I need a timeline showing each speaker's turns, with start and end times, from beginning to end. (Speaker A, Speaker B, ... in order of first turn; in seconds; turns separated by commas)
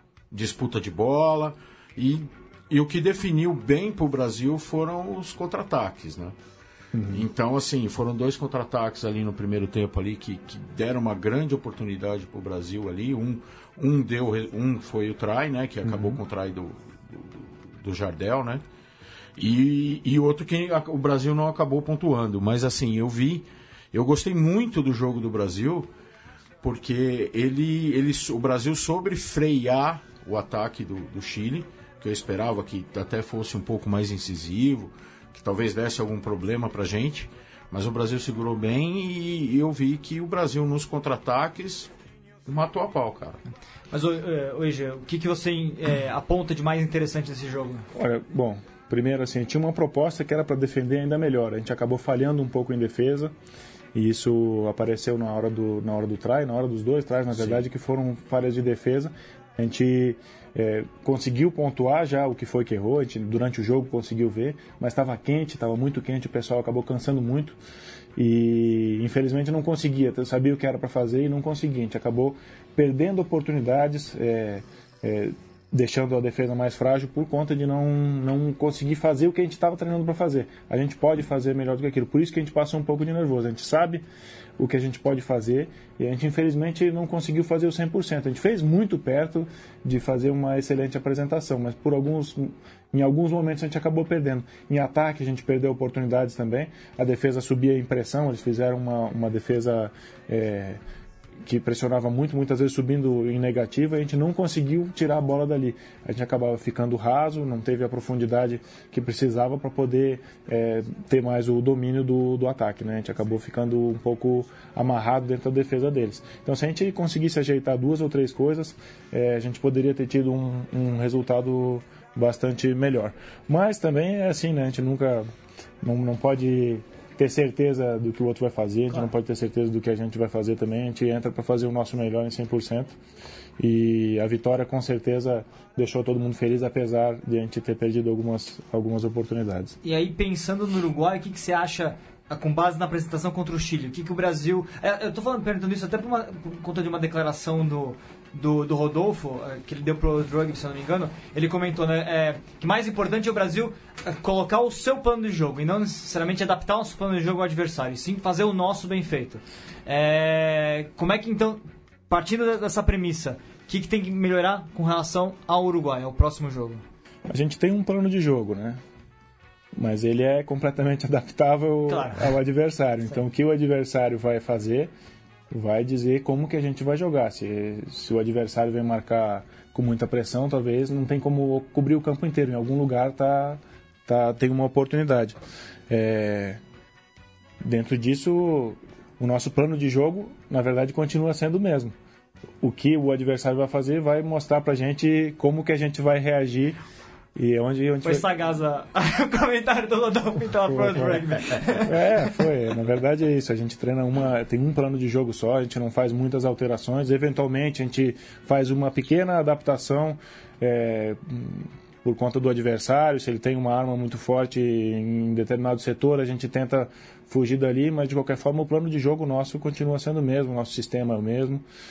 Speaker A: 0.3-6.3, Speaker B: 6.9-7.3, Speaker A: 7.1-18.6, Speaker B: 15.8-16.2, Speaker A: 19.4-25.9, Speaker A: 26.6-41.9, Speaker A: 42.5-43.4, Speaker C: 43.9-47.9, Speaker B: 47.9-53.3, Speaker B: 53.9-67.6, Speaker B: 68.2-84.0, Speaker B: 84.6-100.8, Speaker B: 101.4-125.3, Speaker B: 125.8-132.9, Speaker B: 133.6-139.8, Speaker C: 139.8-166.8, Speaker B: 167.3-168.8, Speaker B: 169.7-174.9, Speaker C: 171.9-172.3, Speaker B: 175.5-185.4, Speaker B: 185.9-186.6, Speaker B: 187.6-191.9, Speaker B: 192.6-196.8, Speaker B: 197.3-198.3, Speaker C: 198.0-201.9, Speaker B: 200.7-201.2, Speaker B: 201.8-221.6